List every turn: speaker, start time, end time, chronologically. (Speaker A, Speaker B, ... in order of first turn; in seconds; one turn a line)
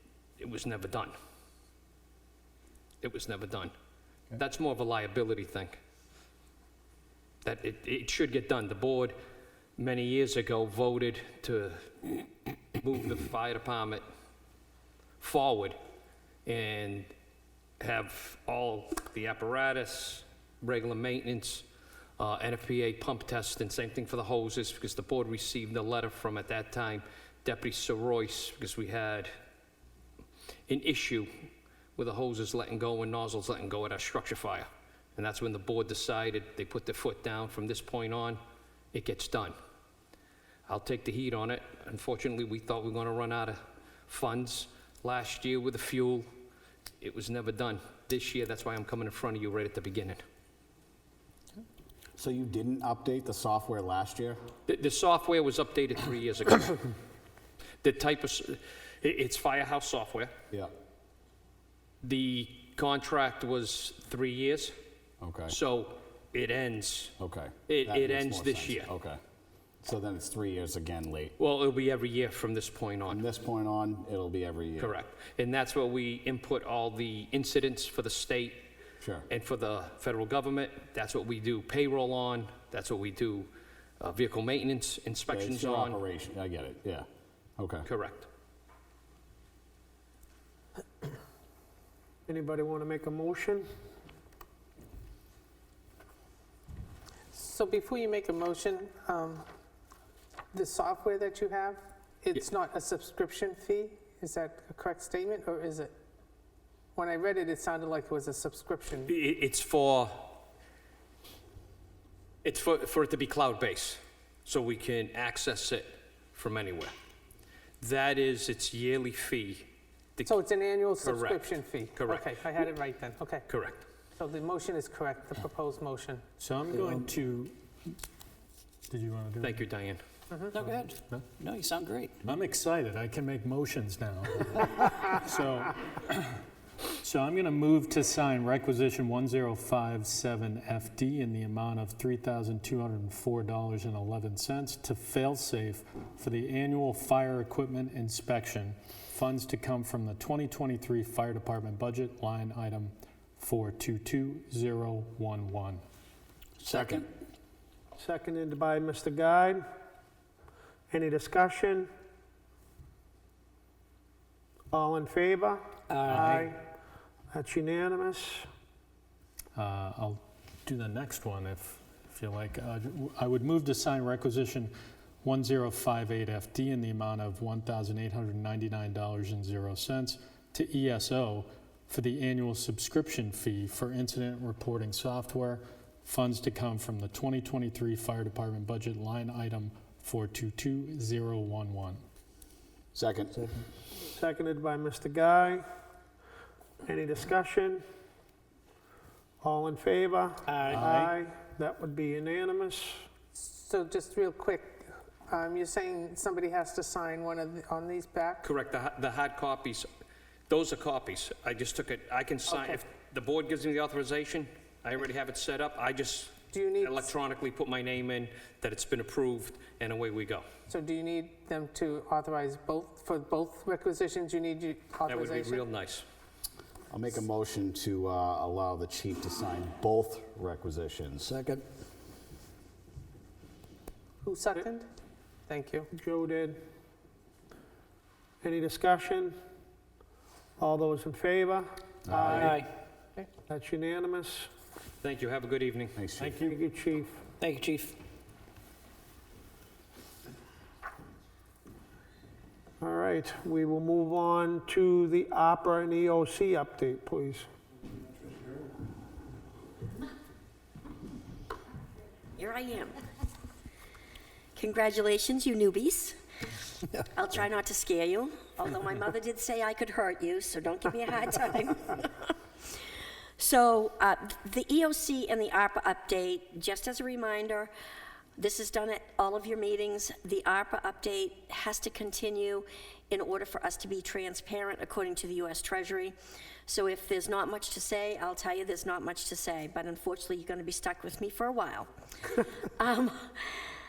Speaker A: 0.4-1.1
Speaker A: 3.0-3.7
Speaker A: 4.3-5.8
Speaker A: 7.4-9.1
Speaker A: 9.8-12.1
Speaker A: 12.8-14.0
Speaker A: 15.2-15.8
Speaker A: 16.4-17.1
Speaker A: 17.8-21.6
Speaker A: 22.2-29.3
Speaker A: 30.7-31.3
Speaker A: 31.9-38.4
Speaker A: 38.9-39.5
Speaker A: 40.7-46.3
Speaker A: 47.0-50.2
Speaker B: 52.2-54.4
Speaker A: 54.7-56.9
Speaker A: 57.8-60.3
Speaker A: 62.0-64.7
Speaker B: 65.2-65.5
Speaker A: 65.5-67.1
Speaker B: 67.2-69.2
Speaker A: 67.7-68.9
Speaker B: 69.8-71.3
Speaker A: 71.4-73.2
Speaker B: 73.1-74.9
Speaker A: 74.8-78.7
Speaker B: 79.0-79.3
Speaker A: 79.3-86.0
Speaker B: 85.3-87.1
Speaker B: 87.6-87.9
Speaker A: 87.8-88.3
Speaker C: 92.3-93.7
Speaker D: 97.3-99.4
Speaker D: 100.5-105.9
Speaker D: 106.9-109.1
Speaker A: 109.1-110.4
Speaker A: 112.4-116.9
Speaker A: 117.8-120.3
Speaker D: 120.2-123.5
Speaker A: 121.0-121.4
Speaker A: 121.9-122.2
Speaker A: 123.5-123.8
Speaker D: 124.2-126.2
Speaker E: 126.4-127.9
Speaker E: 128.9-129.6
Speaker A: 129.4-130.0
Speaker D: 130.3-130.6
Speaker F: 130.5-132.1
Speaker E: 130.5-131.3
Speaker E: 132.2-136.4
Speaker E: 137.0-155.8
Speaker B: 156.6-157.1
Speaker C: 158.0-159.7
Speaker C: 160.9-161.9
Speaker C: 164.7-165.6
Speaker F: 165.9-166.5
Speaker E: 166.0-166.4
Speaker C: 166.2-166.6
Speaker C: 167.3-168.5
Speaker E: 169.6-174.7
Speaker E: 175.2-192.0
Speaker B: 192.9-193.5
Speaker C: 194.1-195.6
Speaker C: 196.8-197.8
Speaker C: 199.4-203.0
Speaker E: 200.6-201.1
Speaker D: 203.3-208.4
Speaker A: 208.4-209.9
Speaker A: 210.5-220.4
Speaker D: 212.5-212.8
Speaker D: 216.5-217.1
Speaker D: 220.7-225.7
Speaker A: 225.1-226.0
Speaker B: 226.9-231.4
Speaker D: 234.2-234.9
Speaker D: 235.5-235.9
Speaker C: 235.9-236.6
Speaker C: 238.4-239.3
Speaker C: 240.6-242.4
Speaker B: 242.1-242.6
Speaker F: 242.4-242.7
Speaker C: 243.5-244.5
Speaker A: 245.0-246.0
Speaker B: 245.9-246.4
Speaker C: 246.2-247.2
Speaker F: 247.4-247.9
Speaker C: 252.8-257.5
Speaker G: 262.4-262.9
Speaker G: 264.6-266.2
Speaker G: 267.0-272.4
Speaker G: 273.4-277.7
Speaker G: 278.4-286.1
Speaker G: 286.7-291.9
Speaker G: 292.8-293.6